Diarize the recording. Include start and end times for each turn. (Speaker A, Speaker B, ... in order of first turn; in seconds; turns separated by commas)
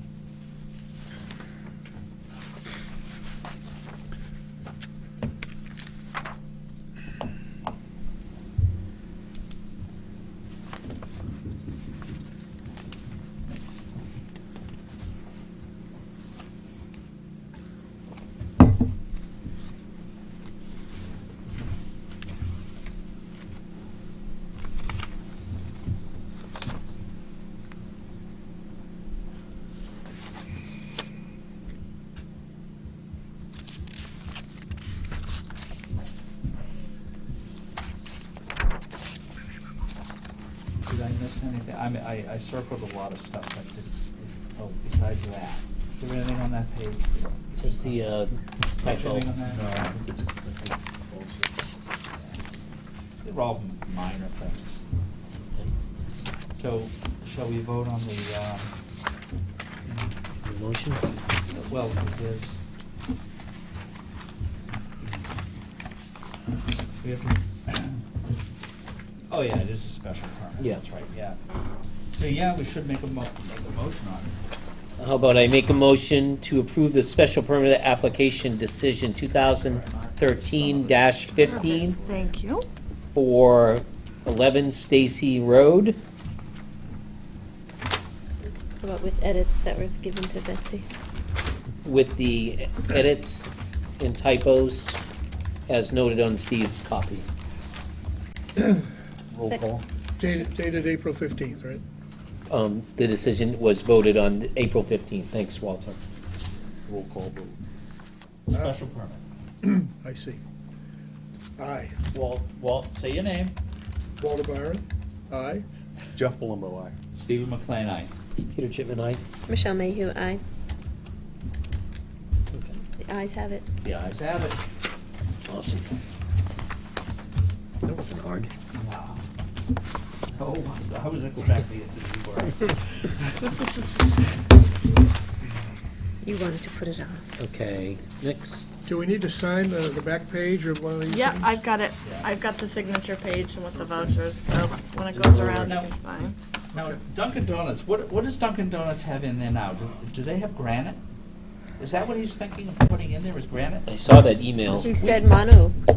Speaker A: 40.9-48.0, Speaker B: 47.6-49.3, Speaker A: 48.8-50.0, Speaker C: 49.4-51.5, Speaker A: 52.1-52.5, Speaker A: 53.2-54.8, Speaker A: 56.5-58.7, Speaker B: 60.4-61.0, Speaker A: 61.5-62.6, Speaker A: 67.0-68.0, Speaker A: 69.3-71.4, Speaker A: 72.1-74.3, Speaker B: 75.0-82.0, Speaker A: 79.6-82.3, Speaker D: 81.6-82.7, Speaker B: 83.2-86.0, Speaker E: 88.8-90.9, Speaker B: 91.8-95.0, Speaker B: 95.7-97.3, Speaker C: 99.3-99.8, Speaker E: 99.4-100.5, Speaker F: 100.2-101.8, Speaker B: 102.5-106.0, Speaker C: 106.9-107.6, Speaker A: 108.5-109.2, Speaker F: 109.6-110.4, Speaker F: 111.6-112.0, Speaker A: 112.1-113.6, Speaker F: 114.2-115.7, Speaker C: 116.2-117.0, Speaker A: 117.1-118.1, Speaker B: 118.5-119.2, Speaker E: 119.5-120.4, Speaker B: 122.5-122.8, Speaker E: 123.0-123.7, Speaker A: 123.8-124.6, Speaker B: 125.5-125.9, Speaker B: 127.8-128.5, Speaker A: 128.7-129.2, Speaker A: 130.3-133.6, Speaker E: 136.2-137.3, Speaker B: 137.4-138.8, Speaker F: 138.8-141.6, Speaker D: 141.1-146.3, Speaker A: 142.0-142.3, Speaker B: 145.1-145.8, Speaker A: 145.6-145.9, Speaker A: 146.7-151.0, Speaker A: 151.8-153.9, Speaker B: 153.9-154.9, Speaker E: 154.8-155.8, Speaker A: 154.8-155.2